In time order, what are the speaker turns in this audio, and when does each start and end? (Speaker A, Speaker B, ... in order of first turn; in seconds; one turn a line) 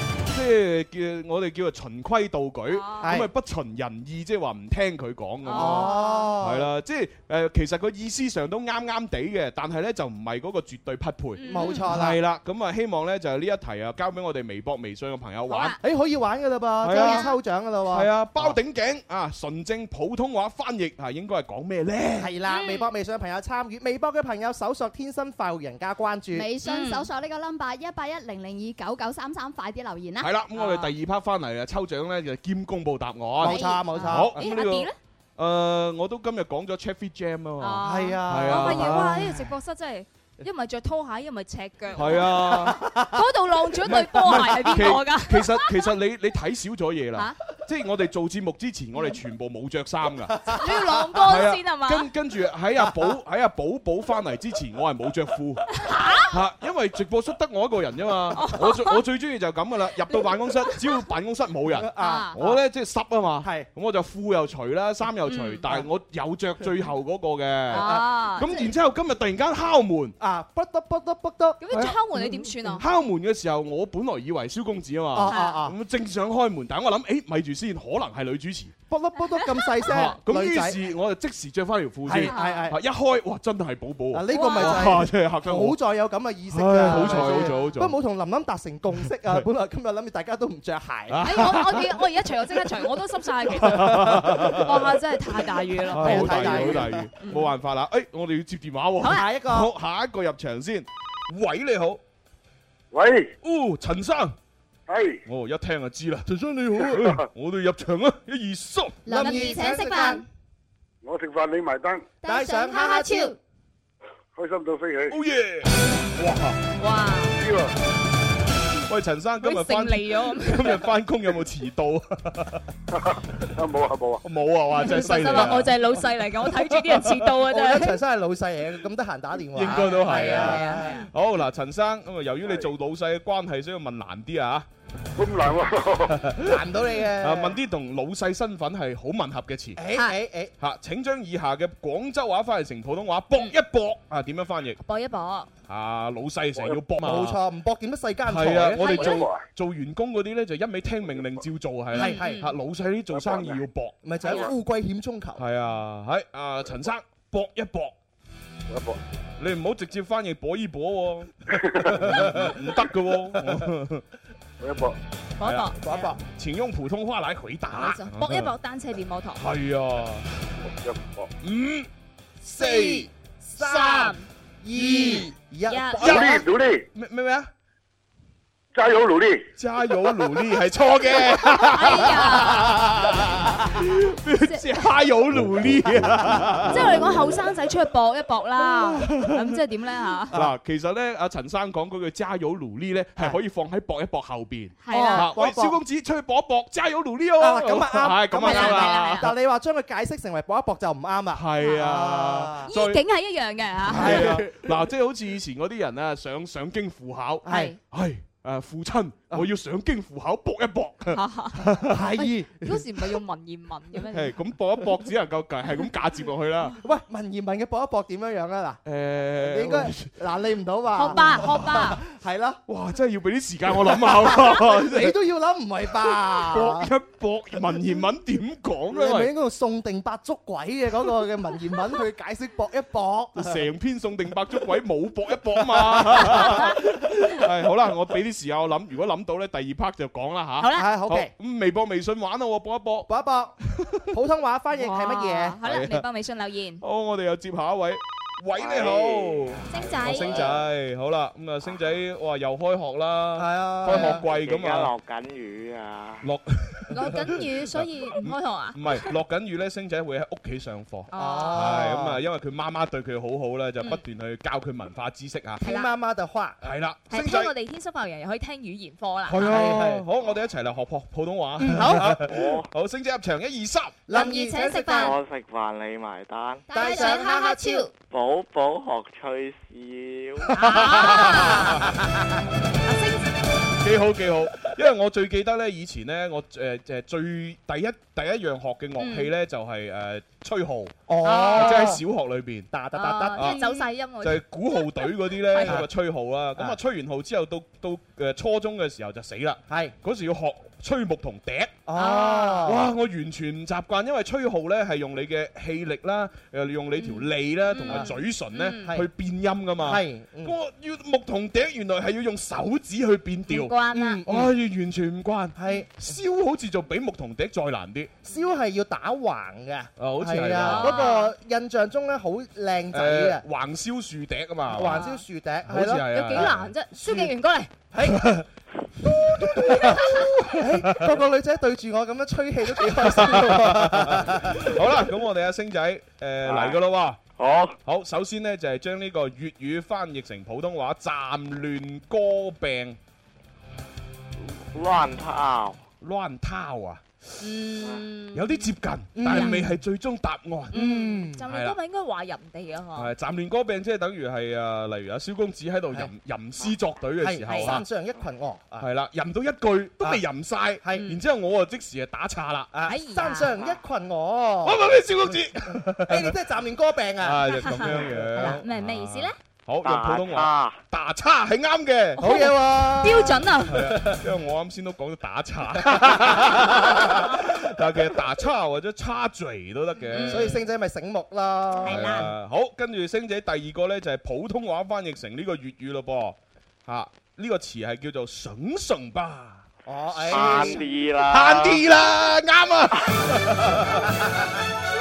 Speaker A: 0.3-15.8
Speaker B: 2.7-3.2
Speaker C: 3.0-3.3
Speaker B: 5.4-6.3
Speaker C: 5.5-6.7
Speaker B: 11.4-11.9
Speaker C: 11.5-12.2
Speaker B: 15.5-15.8
Speaker C: 15.8-18.6
Speaker A: 16.8-17.3
Speaker A: 17.9-22.3
Speaker C: 22.2-26.5
Speaker B: 22.5-22.9
Speaker D: 26.3-30.3
Speaker B: 26.6-27.1
Speaker A: 30.2-39.5
Speaker B: 30.5-30.9
Speaker C: 33.4-34.4
Speaker B: 33.5-35.0
Speaker D: 33.5-34.0
Speaker B: 37.6-45.9
Speaker C: 37.8-39.1
Speaker A: 41.9-42.8
Speaker C: 42.2-43.2
Speaker A: 43.8-50.6
Speaker B: 49.0-49.2
Speaker B: 50.5-52.1
Speaker A: 51.2-55.7
Speaker B: 55.7-56.4
Speaker A: 56.3-70.1
Speaker B: 58.3-59.0
Speaker B: 60.1-61.0
Speaker C: 61.8-62.6
Speaker B: 62.0-62.4
Speaker C: 63.4-63.7
Speaker B: 65.2-65.6
Speaker B: 67.7-68.7
Speaker C: 67.7-68.1
Speaker C: 70.2-71.6
Speaker B: 71.6-72.8
Speaker C: 72.1-72.8
Speaker A: 72.8-78.7
Speaker C: 75.1-75.8
Speaker B: 75.2-75.6
Speaker C: 78.9-80.8
Speaker B: 79.4-79.7
Speaker A: 79.8-85.8
Speaker C: 82.1-82.8
Speaker B: 82.2-82.7
Speaker C: 84.1-91.5
Speaker B: 84.3-85.0
Speaker A: 86.5-88.0
Speaker B: 86.9-87.7
Speaker A: 91.1-92.0
Speaker B: 91.2-97.5
Speaker A: 93.5-94.9
Speaker C: 94.3-94.5
Speaker A: 95.9-102.0
Speaker C: 95.9-97.1
Speaker C: 99.0-99.7
Speaker E: 102.9-103.3
Speaker A: 103.4-104.4
Speaker E: 104.9-105.2
Speaker A: 105.2-109.1
Speaker D: 109.1-110.2
Speaker C: 109.1-110.2
Speaker E: 111.0-112.0
Speaker D: 112.2-113.4
Speaker C: 112.2-113.3
Speaker E: 114.4-115.2
Speaker A: 115.1-116.6
Speaker B: 116.8-117.4
Speaker E: 117.4-117.7
Speaker A: 118.9-122.6
Speaker B: 119.4-120.9
Speaker E: 123.0-124.2
Speaker A: 124.2-125.8
Speaker B: 124.7-128.0
Speaker C: 125.1-125.5
Speaker A: 126.8-127.3
Speaker C: 127.5-131.0
Speaker A: 129.5-134.7
Speaker B: 130.0-131.0
Speaker E: 135.2-136.2
Speaker A: 136.1-139.8
Speaker C: 136.5-137.6
Speaker C: 139.8-140.5
Speaker A: 140.6-144.8
Speaker B: 144.8-145.5
Speaker A: 145.7-147.4
Speaker C: 147.0-149.0
Speaker A: 148.2-154.4
Speaker B: 148.8-149.3
Speaker E: 149.1-149.4
Speaker C: 151.9-152.4
Speaker B: 151.9-152.5
Speaker E: 153.1-153.6
Speaker C: 154.0-155.4
Speaker B: 154.2-154.5
Speaker A: 155.4-158.0
Speaker E: 158.7-159.0
Speaker A: 159.4-164.0
Speaker C: 162.0-162.5
Speaker E: 164.6-165.0
Speaker B: 165.4-166.1
Speaker A: 165.4-168.5
Speaker C: 165.8-166.2
Speaker B: 167.7-169.4
Speaker A: 169.4-170.3
Speaker E: 170.8-171.3
Speaker A: 171.4-171.9
Speaker A: 172.4-173.1
Speaker C: 172.5-176.4
Speaker B: 172.6-173.0
Speaker B: 173.6-174.3
Speaker A: 174.8-175.3
Speaker B: 175.0-176.3
Speaker A: 176.0-176.3
Speaker E: 176.0-176.8
Speaker A: 176.9-177.5
Speaker E: 178.7-179.4
Speaker A: 179.6-187.1
Speaker B: 181.3-182.9
Speaker B: 184.4-184.9
Speaker B: 186.7-190.3
Speaker A: 188.6-189.6
Speaker A: 190.3-199.2
Speaker B: 194.8-195.3
Speaker C: 194.9-195.8
Speaker C: 197.4-202.7
Speaker B: 198.3-199.3
Speaker A: 201.3-203.0
Speaker B: 201.6-201.9
Speaker B: 202.7-204.4
Speaker A: 203.9-212.0
Speaker C: 203.9-204.7
Speaker C: 207.4-207.8
Speaker B: 207.5-207.8
Speaker B: 211.1-214.4
Speaker C: 211.9-212.8
Speaker A: 214.1-216.8
Speaker C: 216.8-218.8
Speaker A: 218.8-220.1
Speaker C: 219.4-222.6
Speaker B: 220.9-222.0
Speaker A: 221.1-221.7
Speaker A: 222.7-225.2
Speaker C: 223.9-226.9
Speaker A: 225.9-229.3
Speaker C: 228.9-233.6
Speaker A: 233.4-243.1
Speaker C: 235.7-236.8
Speaker B: 236.3-236.8
Speaker B: 240.6-240.9
Speaker C: 240.8-241.3
Speaker C: 243.1-243.5
Speaker A: 243.8-244.1
Speaker C: 244.1-245.6
Speaker B: 244.7-246.8
Speaker A: 245.6-246.0
Speaker A: 246.8-254.9
Speaker F: 248.6-250.5
Speaker B: 249.7-250.4
Speaker C: 253.4-254.2
Speaker B: 253.9-254.2
Speaker F: 254.2-256.2
Speaker A: 256.2-265.6
Speaker B: 256.9-259.1
Speaker B: 261.1-261.6
Speaker C: 261.1-262.2
Speaker B: 265.6-265.9
Speaker C: 265.6-266.7
Speaker A: 266.6-267.5
Speaker B: 267.1-269.6
Speaker A: 269.2-274.0
Speaker C: 269.4-270.0
Speaker C: 271.6-272.2
Speaker F: 272.2-272.7
Speaker C: 274.1-275.1
Speaker B: 274.1-275.1
Speaker F: 274.9-276.7
Speaker D: 276.7-277.8
Speaker C: 276.7-277.9
Speaker B: 276.7-277.9
Speaker F: 278.1-280.5
Speaker B: 280.5-281.8
Speaker C: 280.6-281.9
Speaker A: 280.7-281.7
Speaker B: 282.9-283.3
Speaker A: 283.8-291.0
Speaker B: 289.0-289.3
Speaker C: 291.1-292.0
Speaker B: 291.2-291.9
Speaker A: 291.5-292.7
Speaker C: 292.7-293.8
Speaker B: 292.9-295.8
Speaker A: 293.4-293.7
Speaker A: 294.2-301.8
Speaker C: 299.7-299.9
Speaker C: 301.9-302.9
Speaker B: 301.9-302.7
Speaker A: 302.6-318.2
Speaker B: 307.0-308.9
Speaker C: 309.8-310.5
Speaker B: 313.5-314.2
Speaker C: 313.9-314.5
Speaker C: 315.6-315.9
Speaker C: 318.2-323.4
Speaker A: 320.0-321.1
Speaker B: 320.6-321.3
Speaker A: 322.9-325.0
Speaker C: 324.7-327.3
Speaker B: 324.8-325.2
Speaker A: 325.6-326.7
Speaker B: 326.0-327.7
Speaker C: 327.9-328.2
Speaker A: 328.0-328.5
Speaker A: 329.4-331.1
Speaker C: 329.4-334.7
Speaker A: 332.9-337.2
Speaker F: 336.4-336.8
Speaker F: 337.4-337.8
Speaker A: 337.9-343.0
Speaker F: 344.7-345.8
Speaker A: 346.0-347.0
Speaker B: 347.4-349.6
Speaker A: 348.3-350.8
Speaker C: 349.1-349.8
Speaker B: 350.7-353.1
Speaker C: 350.7-351.4
Speaker A: 351.5-351.8
Speaker A: 352.9-357.9
Speaker C: 357.2-358.9
Speaker B: 357.5-357.8
Speaker A: 358.8-362.7
Speaker B: 360.9-361.2
Speaker C: 362.7-364.8
Speaker B: 362.9-363.8
Speaker A: 364.6-366.4
Speaker C: 366.1-368.6
Speaker A: 367.2-372.3
Speaker B: 367.6-369.4
Speaker F: 369.8-370.8
Speaker B: 372.2-373.9
Speaker C: 372.2-374.2
Speaker A: 373.7-380.6
Speaker B: 380.1-380.6
Speaker C: 380.2-382.2
Speaker B: 381.8-382.3
Speaker A: 381.9-394.1
Speaker C: 389.9-390.8
Speaker F: 390.3-391.8